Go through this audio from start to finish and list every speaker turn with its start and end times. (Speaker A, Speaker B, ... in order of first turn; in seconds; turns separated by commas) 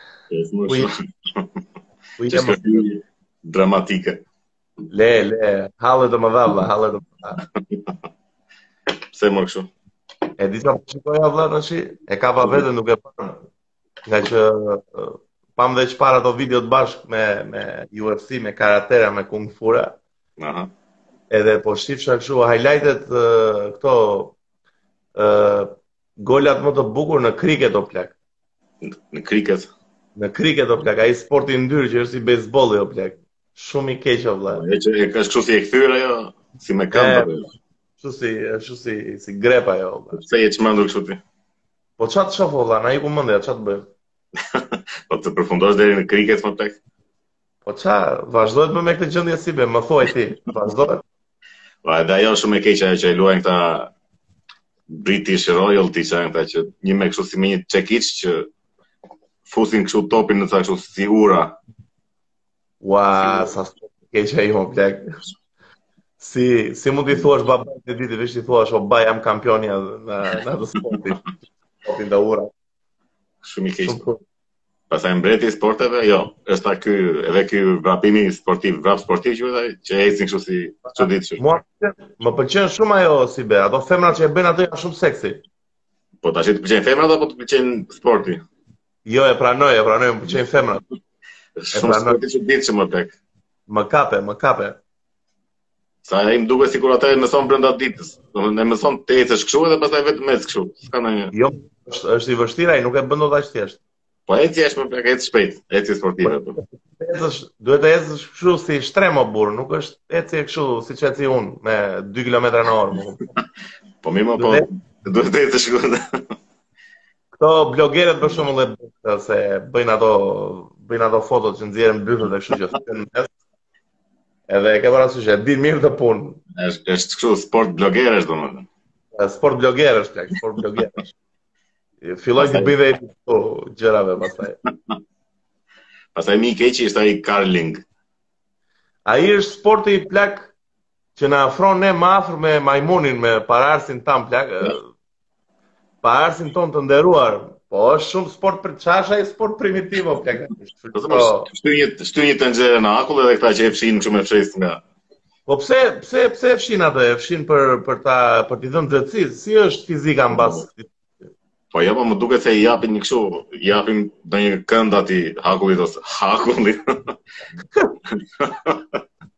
Speaker A: 0.3-1.5, Speaker B: 2.2-2.9, Speaker A: 2.3-4.2, Speaker B: 4.9-7.4, Speaker A: 7.4-7.9, Speaker A: 9.1-9.7, Speaker B: 10.4-13.4, Speaker B: 14.1-20.0, Speaker A: 20.4-20.7, Speaker B: 21.3-24.4, Speaker B: 25.2-28.2, Speaker A: 28.8-29.7, Speaker B: 30.2-34.6, Speaker A: 34.5-37.5, Speaker B: 36.9-37.3, Speaker B: 38.0-40.2, Speaker A: 40.1-41.2, Speaker B: 42.0-43.9, Speaker A: 44.4-46.8, Speaker B: 47.7-51.0, Speaker A: 51.8-53.9, Speaker A: 54.9-58.5, Speaker A: 59.5-61.6, Speaker B: 62.8-65.1, Speaker A: 63.2-63.5, Speaker B: 66.2-71.2, Speaker B: 71.8-72.5, Speaker A: 73.4-74.0, Speaker B: 73.8-74.2, Speaker A: 74.9-81.4, Speaker B: 80.9-85.4, Speaker A: 86.2-88.4, Speaker B: 89.0-90.8, Speaker A: 91.6-93.2, Speaker B: 91.7-92.2, Speaker B: 93.7-94.8, Speaker A: 96.0-101.3, Speaker B: 101.3-103.8, Speaker A: 104.3-106.6, Speaker B: 106.2-113.3, Speaker A: 114.0-116.0, Speaker B: 114.4-114.7, Speaker B: 117.3-123.3, Speaker B: 124.5-126.4, Speaker A: 126.5-128.7, Speaker B: 129.2-131.1, Speaker B: 132.0-134.6, Speaker A: 132.4-132.8, Speaker A: 136.2-137.8, Speaker B: 139.1-140.5, Speaker B: 141.2-144.9, Speaker B: 146.0-151.5, Speaker A: 150.9-154.8, Speaker B: 155.5-160.9, Speaker A: 160.3-160.6, Speaker A: 161.7-167.1, Speaker A: 168.4-169.0